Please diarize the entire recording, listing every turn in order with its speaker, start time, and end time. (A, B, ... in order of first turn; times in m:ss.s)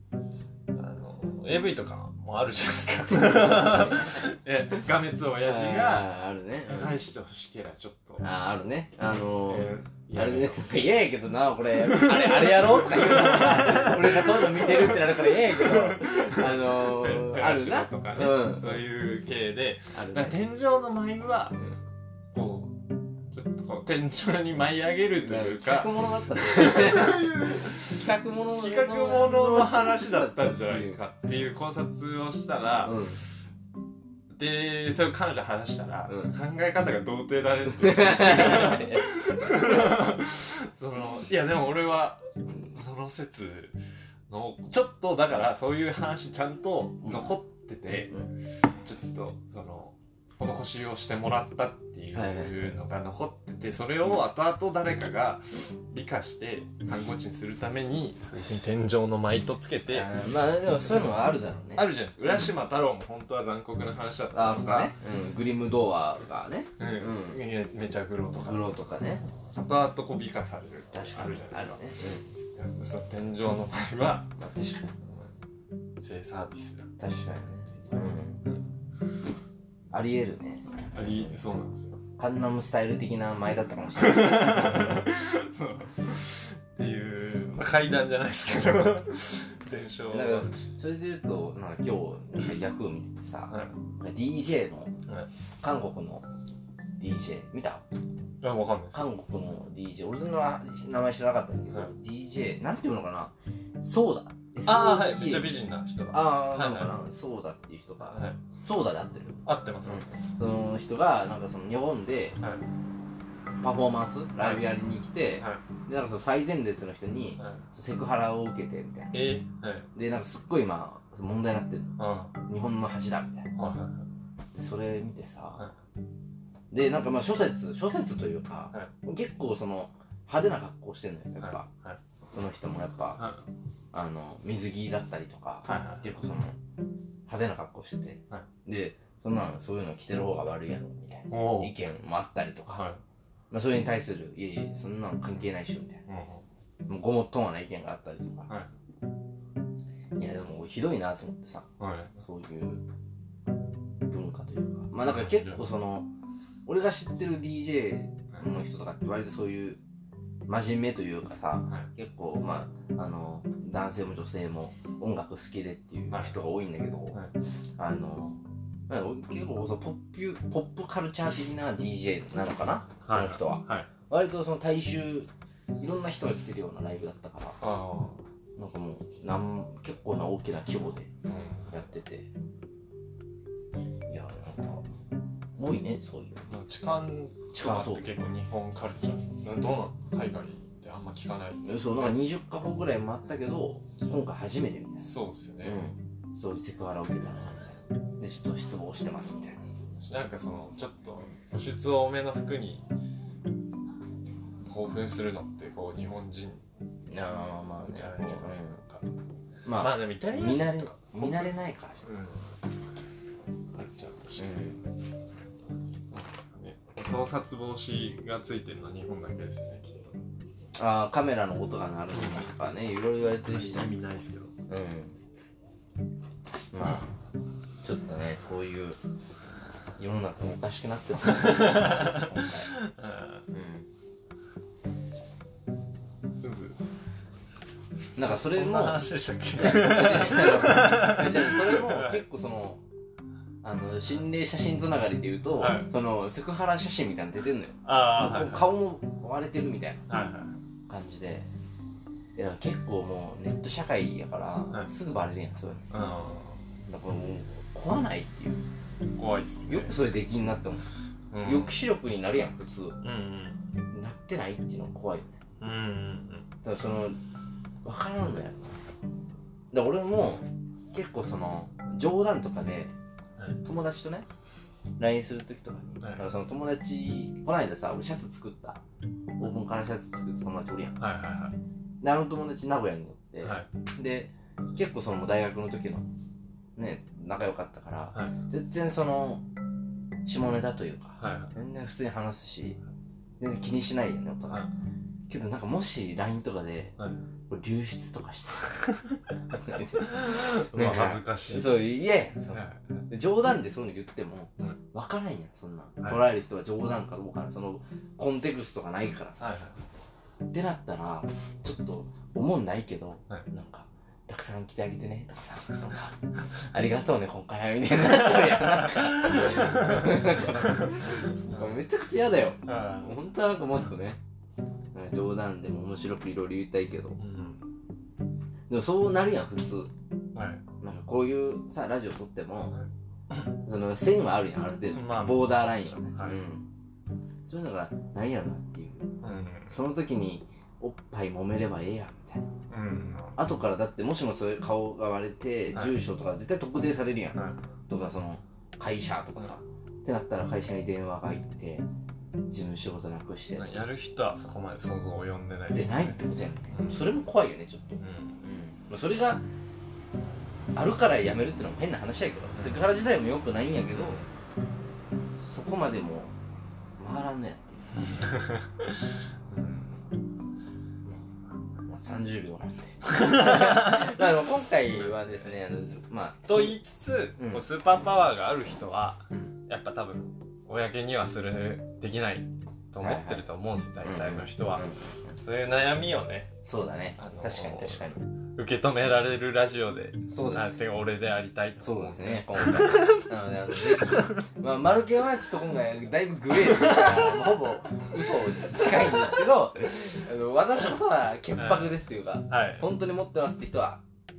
0:00.7-0:06.1 A
0:03.3-0:04.1 B
0:05.4-0:07.0 B
0:06.6-0:08.2 A
0:08.2-0:18.8 B
0:09.4-0:10.8 A
0:11.7-0:21.6 A
0:19.9-0:20.4 B
0:22.3-0:22.8 A
0:23.3-0:33.1 A
0:25.2-0:31.0 B
0:32.8-0:33.2 B
0:34.3-0:43.8 A
0:36.1-0:36.4 B
0:37.7-0:40.0 B
0:44.3-0:48.2 A
0:47.0-0:47.3 B
0:48.8-1:00.1 A
0:52.1-0:52.7 B
0:59.9-1:01.9 B
1:01.8-1:05.0 A
1:04.3-1:07.4 B
1:06.8-1:08.7 A
1:08.4-1:09.2 B
1:09.5-1:14.3 A
1:10.9-1:12.2 B
1:14.4-1:15.0 B
1:15.0-1:15.3 A
1:16.0-1:16.9 A
1:17.0-1:18.4 B
1:19.9-1:21.3 B
1:20.9-1:22.0 A
1:22.2-1:25.1 B
1:24.0-1:30.6 A
1:30.1-1:34.9 B
1:33.5-1:33.8 A
1:35.6-1:36.2 B
1:37.0-1:37.8 B
1:38.4-1:39.1 A
1:38.9-1:45.5 B
1:44.6-1:46.9 A
1:46.1-1:52.4 B
1:48.1-1:48.4 A
1:49.4-1:50.2 A
1:52.4-1:52.6 A
1:53.6-1:59.2 B
1:54.4-1:54.7 A
1:57.4-1:57.6 A
1:59.1-1:59.9 A
1:59.9-2:03.5 B
2:02.0-2:02.3 A
2:03.5-2:04.1 A
2:04.5-2:05.7 B
2:06.7-2:11.7 B
2:11.4-2:12.0 A
2:12.3-2:13.2 B
2:13.2-2:13.4 A
2:13.9-2:16.6 B
2:15.6-2:16.1 A
2:17.3-2:22.8 B
2:21.3-2:21.7 A
2:22.7-2:23.0 A
2:23.5-2:26.0 B
2:26.1-2:26.4 A
2:26.9-2:28.5 B
2:30.2-2:32.8 B
2:31.8-2:32.1 A
2:34.1-2:36.1 B
2:35.1-2:35.6 A
2:36.6-2:39.8 B
2:40.5-2:47.2 B
2:46.1-2:46.4 A
2:47.8-2:57.6 B
2:53.0-2:53.9 A
2:57.6-2:58.2 A
2:58.6-3:01.1 B
3:01.2-3:01.7 A
3:01.7-3:02.3 B
3:04.1-3:04.8 B
3:05.6-3:06.5 B
3:06.5-3:12.2 A
3:07.5-3:08.1 B
3:11.6-3:15.1 B
3:15.0-3:15.8 A
3:15.6-3:19.6 B
3:20.0-3:22.8 A
3:24.6-3:26.6 A
3:27.1-3:28.8 B
3:27.8-3:29.0 A
3:29.6-3:32.0 B
3:29.8-3:32.5 A
3:33.7-3:34.6 A
3:34.4-3:34.8 B
3:36.1-3:40.2 A
3:40.8-3:43.9 B
3:42.1-3:42.5 A
3:43.4-3:44.5 A
3:44.7-3:45.2 B
3:46.7-3:47.1 B
3:47.8-3:49.0 B
3:50.0-3:52.7 B
3:51.2-3:53.4 A
3:53.5-3:53.8 B
3:56.4-3:56.8 A
3:58.2-3:59.0 B
3:58.2-4:02.2 A
3:59.6-4:02.8 B
4:03.6-4:10.0 B
4:05.6-4:05.9 A
4:07.8-4:08.7 A
4:10.1-4:10.6 A
4:10.9-4:11.5 B
4:12.4-4:15.8 B
4:15.9-4:16.6 A
4:16.8-4:18.7 B
4:19.2-4:20.0 A
4:19.7-4:20.9 B
4:21.3-4:21.8 A
4:21.4-4:23.0 B
4:23.0-4:23.6 A
4:23.9-4:25.4 B
4:25.6-4:26.5 A
4:26.6-4:27.2 B
4:27.8-4:28.8 B
4:29.7-4:32.9 B
4:33.6-4:34.3 B
4:35.0-4:38.8 B
4:39.4-4:41.0 B
4:41.0-4:41.6 A
4:42.0-4:46.1 B
4:43.4-4:43.7 A
4:46.8-4:49.4 B
4:50.2-4:52.8 B
4:51.2-4:51.6 A
4:53.4-4:54.7 B
4:55.3-4:57.0 B
4:57.0-4:57.3 A
4:57.5-4:58.8 B
4:59.5-5:09.5 B
4:59.7-5:03.0 A
5:09.4-5:09.8 A
5:10.5-5:24.2 B
5:18.2-5:21.8 A
5:22.6-5:23.2 A
5:24.9-5:27.2 B
5:27.2-5:27.7 A
5:28.7-5:29.9 B
5:30.3-5:30.6 A
5:30.8-5:32.8 B
5:32.7-5:33.4 A
5:33.6-5:36.7 B
5:34.9-5:36.4 A
5:37.4-5:39.1 B
5:39.2-5:39.8 A
5:39.7-5:42.5 B
5:42.7-5:43.4 A
5:43.4-5:51.8 B
5:47.4-5:47.6 A
5:52.5-5:53.8 B
5:53.5-5:56.2 A
5:55.7-5:59.4 B
5:56.7-5:57.1 A
5:58.0-5:58.4 A
6:00.7-6:04.2 B
6:02.6-6:02.8 A
6:03.9-6:04.3 A
6:05.4-6:06.3 B
6:07.0-6:08.3 B
6:08.2-6:09.0 A
6:09.5-6:10.0 A
6:11.8-6:16.8 B
6:13.1-6:14.2 A
6:14.8-6:15.6 A
6:16.4-6:26.5 A
6:17.4-6:17.6 B
6:23.0-6:23.4 B
6:24.0-6:25.0 B
6:26.6-6:28.3 B
6:27.2-6:28.0 A
6:28.6-6:34.4 A
6:30.3-6:30.8 B
6:31.8-6:44.0 B
6:36.7-6:37.3 A
6:41.5-6:42.9 A